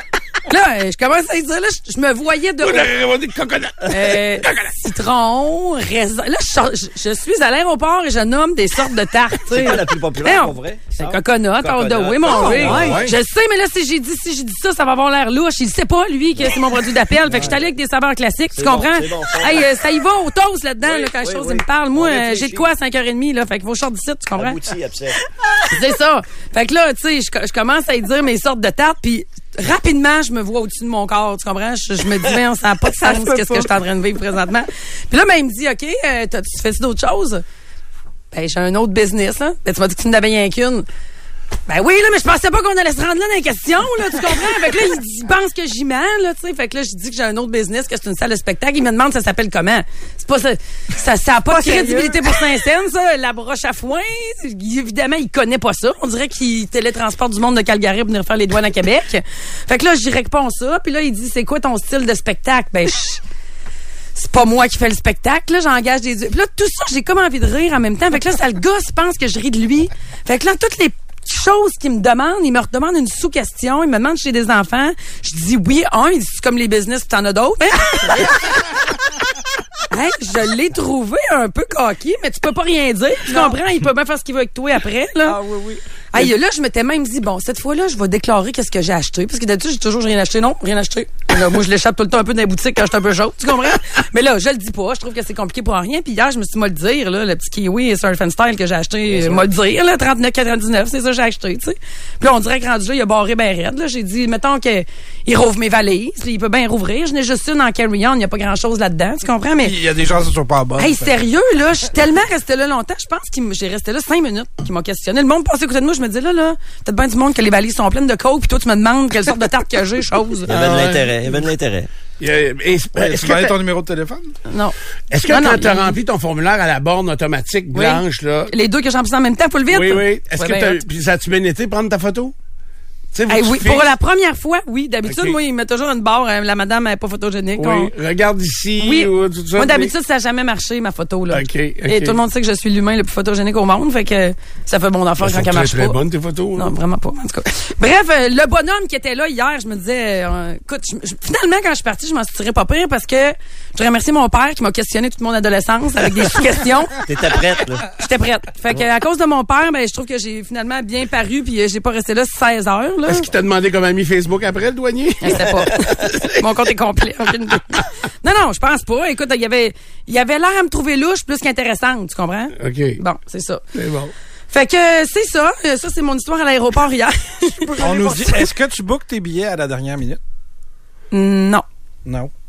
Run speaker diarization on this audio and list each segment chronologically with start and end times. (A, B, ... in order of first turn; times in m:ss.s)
0:00.5-0:02.9 A
0:02.6-0:04.8 B
0:03.9-0:24.6 A
0:09.5-0:13.0 C
0:12.2-0:13.1 D
0:12.4-0:13.1 B
0:12.8-0:13.1 E
0:17.3-0:17.6 E
0:18.5-0:19.8 C
0:20.8-0:22.7 C
0:24.4-0:25.2 C
0:25.7-0:37.4 A
0:33.0-0:33.7 D
0:38.3-0:40.9 A
0:41.7-1:03.2 A
0:51.5-0:52.4 D
1:04.2-1:18.4 A
1:19.9-1:25.4 A
1:23.3-1:23.5 D
1:25.3-1:25.8 D
1:26.1-1:49.8 A
1:49.6-1:51.2 E
1:50.8-2:00.5 A
2:00.5-2:01.9 C
2:00.5-2:01.4 B
2:02.2-2:03.6 B
2:03.0-2:04.3 E
2:04.5-2:04.8 A
2:05.1-2:08.5 B
2:05.3-2:06.0 A
2:07.7-2:10.8 A
2:09.7-2:12.3 B
2:13.1-2:13.9 B
2:13.3-2:17.9 A
2:15.0-2:15.4 B
2:17.6-2:19.9 B
2:18.8-2:26.0 A
2:21.3-2:22.2 B
2:25.2-2:26.7 B
2:26.6-2:37.4 A
2:37.1-2:37.9 C
2:37.9-2:43.3 A
2:43.1-2:46.4 B
2:45.2-2:53.6 A
2:52.6-2:53.0 B
2:53.7-2:54.1 B
2:54.5-2:58.5 A
2:57.7-3:00.2 E
3:01.1-3:01.6 A
3:02.0-3:02.3 E